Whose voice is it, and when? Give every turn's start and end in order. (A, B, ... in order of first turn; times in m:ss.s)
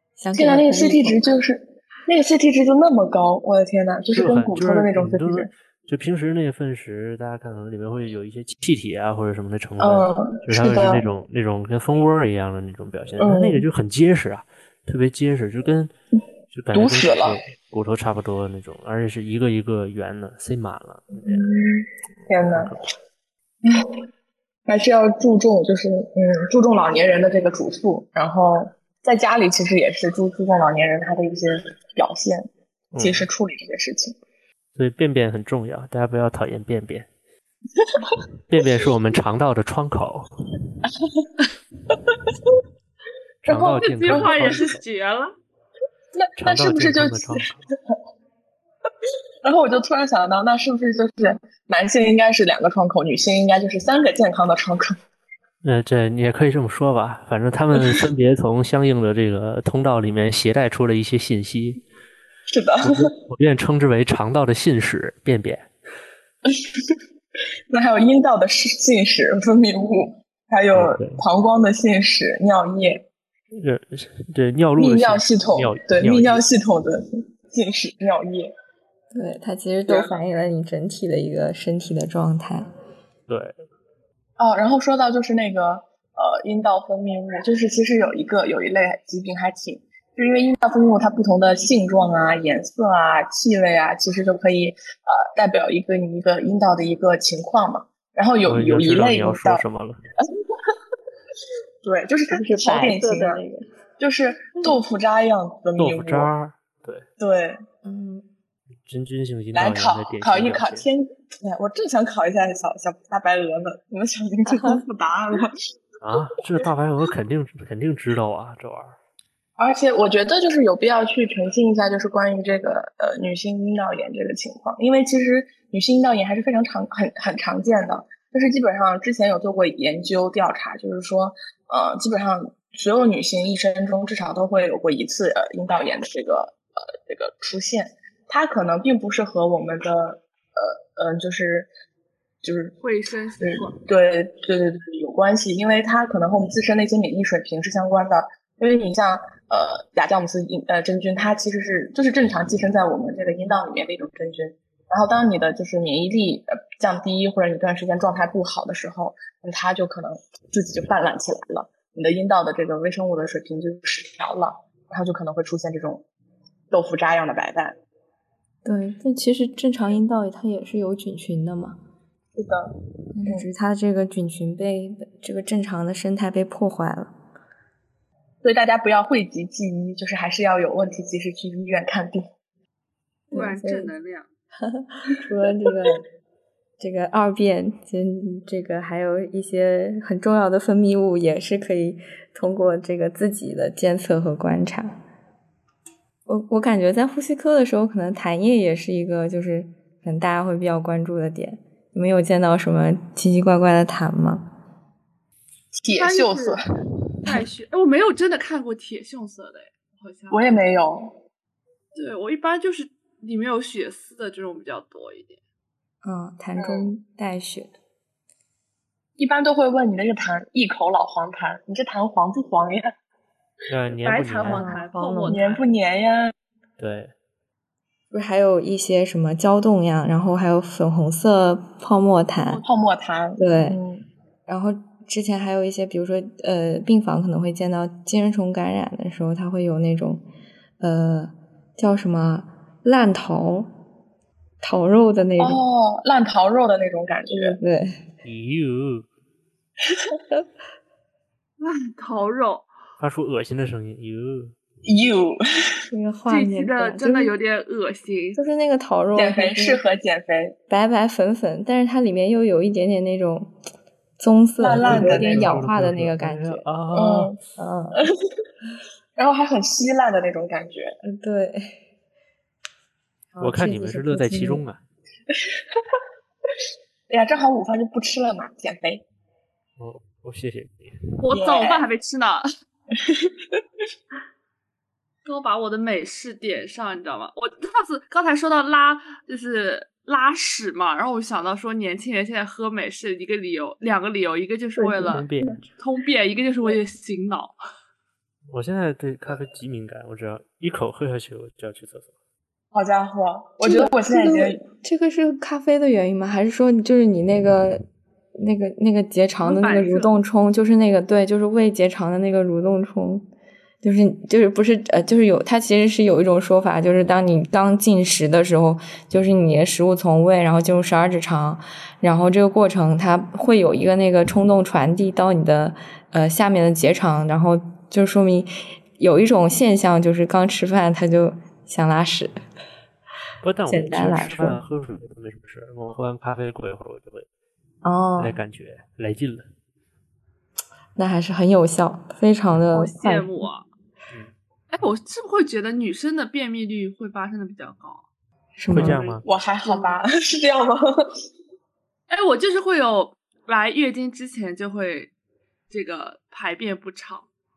0:00.2-0:01.2 A
0:00.3-0:05.5 B
0:04.1-0:15.9 C
0:09.8-0:11.0 B
0:13.2-0:13.6 B
0:16.5-0:21.5 C
0:16.7-0:17.4 B
0:21.2-0:22.7 B
0:22.4-0:22.8 C
0:23.6-0:24.0 B
0:24.7-0:34.2 B
0:32.9-0:33.3 C
0:34.7-0:37.1 C
0:37.8-0:38.1 B
0:38.5-0:40.3 C
0:43.4-0:44.8 C
0:43.5-0:45.3 D
0:44.1-0:44.6 B
0:46.1-0:47.4 B
0:46.4-0:47.7 C
0:49.4-0:55.0 B
0:55.6-1:01.8 C
1:02.5-1:03.1 B
1:02.8-1:05.7 C
1:06.4-1:07.0 B
1:07.7-1:13.0 B
1:10.7-1:11.2 C
1:13.5-1:16.4 C
1:14.8-1:18.5 B
1:19.1-1:22.7 A
1:19.9-1:20.2 B
1:23.3-1:23.5 C
1:24.4-1:39.6 B
1:38.4-1:40.0 C
1:41.8-1:43.4 B
1:42.4-1:43.6 A
1:44.0-1:46.3 B
1:45.8-1:47.0 C
1:47.2-1:47.6 B
1:47.8-1:48.2 A
1:48.8-1:50.9 C
1:49.5-1:55.5 B
1:54.5-1:54.8 A
1:56.0-1:59.0 C
1:59.6-2:21.7 B
2:22.4-2:22.8 B
2:22.8-2:23.8 D
2:23.4-2:46.0 B
2:46.7-2:47.8 B
2:48.6-2:51.8 A
2:52.3-2:52.7 B
2:53.2-2:57.1 A
2:53.2-2:53.5 B
2:58.4-3:02.3 B
3:03.3-3:03.9 A
3:03.3-3:04.3 D
3:04.6-3:06.0 A
3:06.8-3:15.0 A
3:16.2-3:24.5 A
3:25.8-3:26.6 B
3:26.0-3:26.6 D
3:27.2-3:30.4 D
3:30.3-3:31.1 B
3:31.9-3:35.4 D
3:36.0-3:37.7 A
3:36.6-3:36.9 B
3:39.2-3:42.9 B
3:43.7-3:44.7 C
3:44.0-3:45.6 D
3:44.4-3:45.4 A
3:45.3-3:46.3 B
3:46.8-3:47.1 C
3:48.1-3:52.6 A
3:52.6-3:54.0 B
3:53.4-3:53.8 A
3:54.5-4:00.2 A
4:00.8-4:03.7 A
4:04.6-4:05.6 A
4:05.4-4:07.6 B
4:07.3-4:08.0 A
4:08.2-4:09.1 C
4:11.6-4:12.7 D
4:13.0-4:14.5 C
4:14.8-4:15.8 B
4:15.9-4:17.3 A
4:16.3-4:18.4 D
4:18.4-4:19.8 A
4:19.1-4:20.6 B
4:20.7-4:23.5 A
4:24.2-4:26.6 A
4:24.6-4:25.6 B
4:24.6-4:27.4 C
4:26.9-4:27.4 B
4:27.6-4:28.1 A
4:29.2-4:31.0 B
4:31.0-4:31.8 A
4:33.3-4:34.6 A
4:33.4-4:34.8 C
4:35.3-4:35.8 B
4:37.1-4:39.0 B
4:39.8-4:41.0 C
4:41.2-4:42.4 D
4:41.3-4:41.9 B
4:42.9-4:43.6 B
4:45.2-4:55.2 D
4:54.8-4:55.6 A
4:55.1-4:55.6 C
4:55.8-4:57.5 D
4:58.5-5:02.1 C
5:02.7-5:04.6 B
5:03.6-5:07.8 A
5:08.4-5:13.2 A
5:09.4-5:10.1 D
5:13.8-5:32.3 A
5:33.4-5:37.2 C
5:33.7-5:34.6 A
5:37.8-5:38.4 A
5:38.2-5:39.5 C
5:41.0-5:43.5 A
5:42.7-5:43.6 D
5:44.7-5:48.0 D
5:48.6-5:49.0 A
5:48.7-5:49.2 C
5:48.8-5:50.0 D
5:49.2-5:51.1 B
5:52.1-5:55.1 D
5:55.7-5:57.3 D